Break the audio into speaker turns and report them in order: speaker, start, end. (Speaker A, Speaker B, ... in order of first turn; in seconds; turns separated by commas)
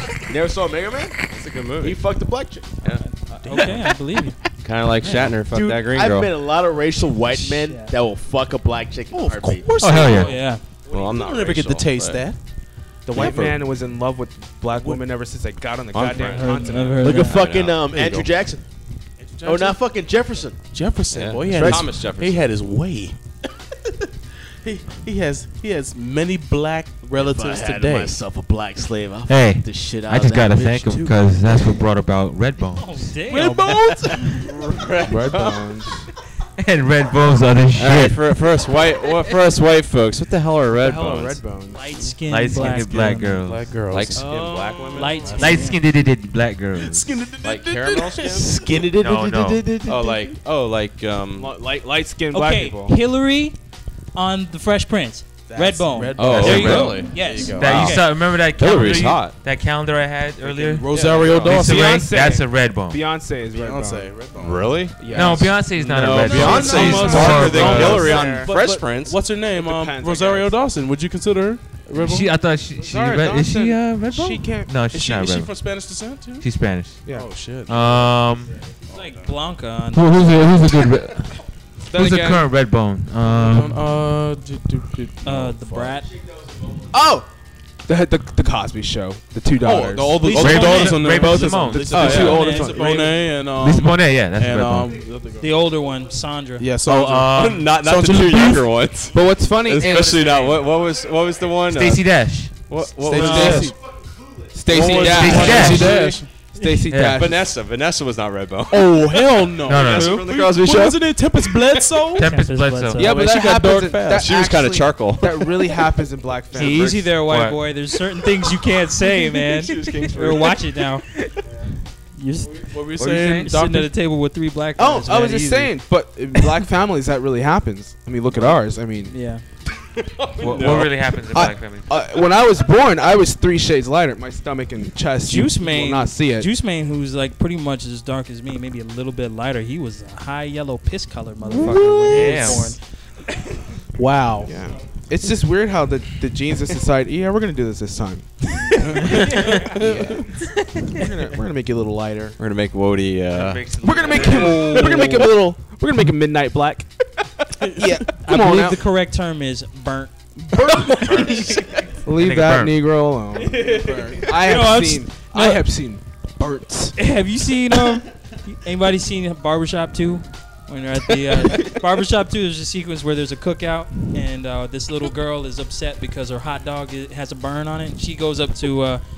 Speaker A: 0.3-1.2, Speaker B: 1.3-2.0, Speaker A: 1.8-2.7, Speaker C: 3.0-4.4, Speaker D: 3.3-4.0, Speaker B: 4.6-6.3, Speaker D: 5.0-5.3, Speaker A: 5.5-9.7, Speaker C: 7.3-8.0, Speaker D: 9.1-12.4, Speaker E: 9.8-10.3, Speaker C: 10.1-10.6, Speaker B: 10.9-12.2, Speaker F: 13.1-17.1, Speaker D: 13.1-13.6, Speaker D: 14.7-15.1, Speaker B: 15.9-18.2, Speaker C: 16.2-17.4, Speaker D: 16.9-17.2, Speaker A: 17.0-18.6, Speaker D: 17.9-18.3, Speaker D: 19.2-19.8, Speaker A: 19.4-20.6, Speaker D: 20.7-23.2, Speaker B: 21.1-22.5, Speaker A: 21.5-21.8, Speaker D: 24.6-28.2, Speaker A: 27.1-31.2, Speaker E: 29.3-33.1, Speaker C: 32.8-34.4, Speaker D: 33.3-35.6, Speaker F: 35.1-36.1, Speaker E: 36.6-38.3, Speaker B: 37.8-41.4, Speaker F: 40.8-42.0, Speaker C: 41.7-43.5, Speaker E: 42.3-43.7, Speaker D: 43.4-45.8, Speaker B: 43.9-45.4, Speaker C: 44.9-45.8, Speaker E: 45.4-47.1, Speaker D: 46.7-48.9, Speaker B: 47.4-48.5, Speaker A: 48.4-50.4, Speaker E: 48.9-49.7, Speaker B: 49.9-51.5, Speaker F: 51.4-53.0, Speaker C: 52.3-53.6, Speaker C: 54.1-58.0, Speaker D: 55.5-58.0, Speaker B: 56.2-59.4, Speaker E: 56.5-63.0, Speaker D: 60.4-62.1, Speaker B: 60.9-61.6, Speaker F: 61.5-64.1, Speaker D: 63.5-72.3, Speaker B: 64.4-65.0, Speaker F: 65.0-65.6, Speaker E: 65.1-68.2, Speaker B: 65.7-69.2, Speaker F: 66.3-68.6, Speaker F: 69.5-70.5, Speaker E: 72.0-75.7, Speaker F: 72.8-74.9, Speaker D: 74.8-76.5, Speaker E: 76.4-77.0, Speaker F: 77.0-77.3, Speaker D: 77.1-78.2, Speaker E: 77.6-78.6, Speaker D: 78.9-79.3, Speaker C: 78.9-80.3, Speaker E: 79.9-81.4, Speaker F: 81.9-82.5, Speaker E: 81.9-83.8, Speaker D: 83.2-86.0, Speaker C: 85.2-86.1, Speaker A: 86.1-87.0, Speaker F: 86.9-87.3, Speaker F: 87.9-93.1, Speaker D: 89.6-95.7, Speaker E: 90.2-92.3, Speaker C: 92.0-93.1, Speaker E: 93.5-95.1, Speaker C: 95.4-96.7, Speaker D: 96.6-98.8, Speaker E: 96.9-97.7, Speaker B: 97.3-103.8, Speaker F: 99.1-100.6, Speaker E: 101.6-102.7, Speaker F: 103.0-103.7, Speaker D: 103.1-103.7, Speaker C: 103.2-103.7, Speaker F: 104.5-107.5, Speaker B: 104.7-106.0, Speaker D: 104.7-106.3, Speaker E: 105.0-106.0, Speaker E: 106.9-107.3, Speaker B: 107.2-111.8, Speaker D: 108.7-112.4, Speaker E: 109.6-110.2, Speaker E: 112.2-113.1, Speaker C: 112.2-113.2, Speaker F: 113.0-117.1, Speaker D: 113.0-114.3, Speaker B: 114.2-115.6, Speaker C: 116.5-121.1, Speaker E: 117.2-117.6, Speaker B: 119.5-120.6, Speaker C: 122.2-125.7, Speaker D: 122.6-123.9, Speaker E: 123.0-123.5, Speaker F: 124.8-129.1, Speaker C: 129.1-129.4, Speaker B: 130.0-130.9, Speaker E: 130.4-131.8, Speaker F: 130.6-136.5, Speaker C: 135.2-142.8, Speaker F: 141.4-142.6, Speaker E: 142.1-142.7, Speaker D: 144.0-144.5, Speaker F: 144.4-152.4, Speaker D: 148.9-149.2, Speaker B: 149.8-150.2, Speaker B: 152.4-153.7, Speaker E: 153.3-154.8, Speaker F: 153.8-156.9, Speaker C: 154.2-155.3, Speaker F: 157.7-158.8, Speaker C: 158.2-161.6, Speaker D: 160.4-161.8, Speaker F: 162.0-167.0, Speaker E: 162.2-162.8, Speaker D: 163.5-164.3, Speaker C: 164.3-165.6, Speaker C: 167.0-179.0